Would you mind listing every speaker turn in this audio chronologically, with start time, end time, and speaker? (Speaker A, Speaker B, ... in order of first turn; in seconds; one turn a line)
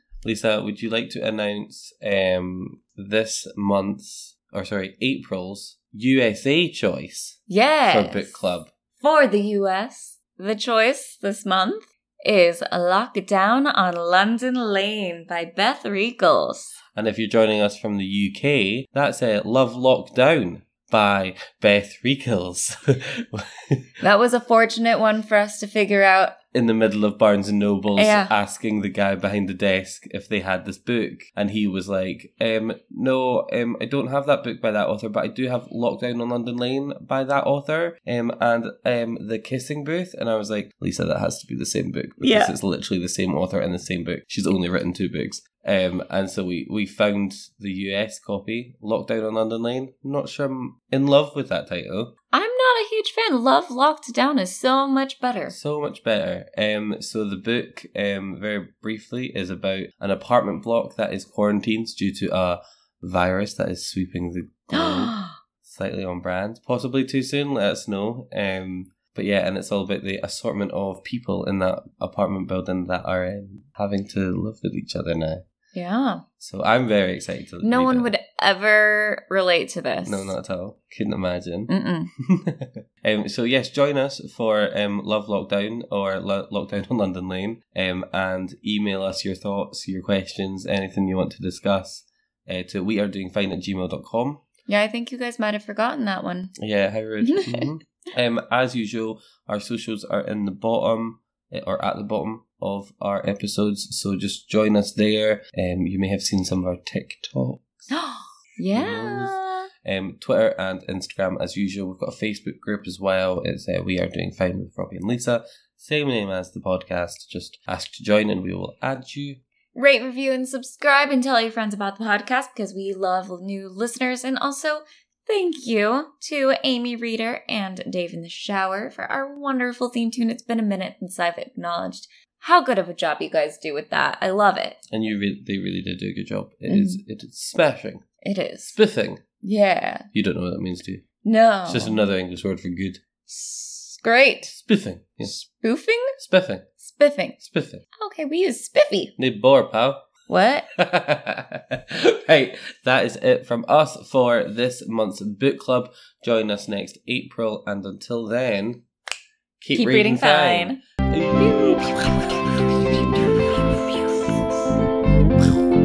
Speaker A: 0.2-8.7
Speaker B: 7.5-8.4
Speaker B: 9.0-16.8
Speaker A: 16.9-23.8
Speaker B: 24.0-26.4
Speaker A: 26.5-52.1
Speaker B: 27.9-28.3
Speaker B: 42.2-42.5
Speaker B: 52.3-55.5
Speaker A: 55.5-75.4
Speaker B: 64.7-65.4
Speaker B: 75.7-76.2
Speaker A: 76.4-78.1
Speaker B: 77.6-80.3
Speaker A: 80.0-81.7
Speaker B: 81.7-82.1
Speaker A: 82.2-94.4
Speaker B: 94.7-96.5
Speaker A: 96.6-107.9
Speaker B: 97.2-97.7
Speaker B: 107.9-109.7
Speaker A: 108.7-119.4
Speaker B: 119.7-134.8
Speaker A: 134.9-138.0
Speaker B: 136.7-137.0
Speaker B: 138.2-138.8
Speaker A: 138.7-139.2
Speaker B: 139.4-140.1
Speaker A: 140.1-141.0
Speaker B: 141.2-142.0
Speaker A: 141.7-143.0
Speaker B: 143.3-144.6
Speaker A: 144.5-145.3
Speaker B: 145.2-146.1
Speaker A: 146.2-146.6
Speaker B: 146.8-147.4
Speaker A: 147.4-147.8
Speaker B: 148.0-149.1
Speaker A: 149.2-150.1
Speaker B: 150.3-150.7
Speaker A: 150.7-158.8
Speaker A: 159.6-164.4
Speaker B: 159.7-160.8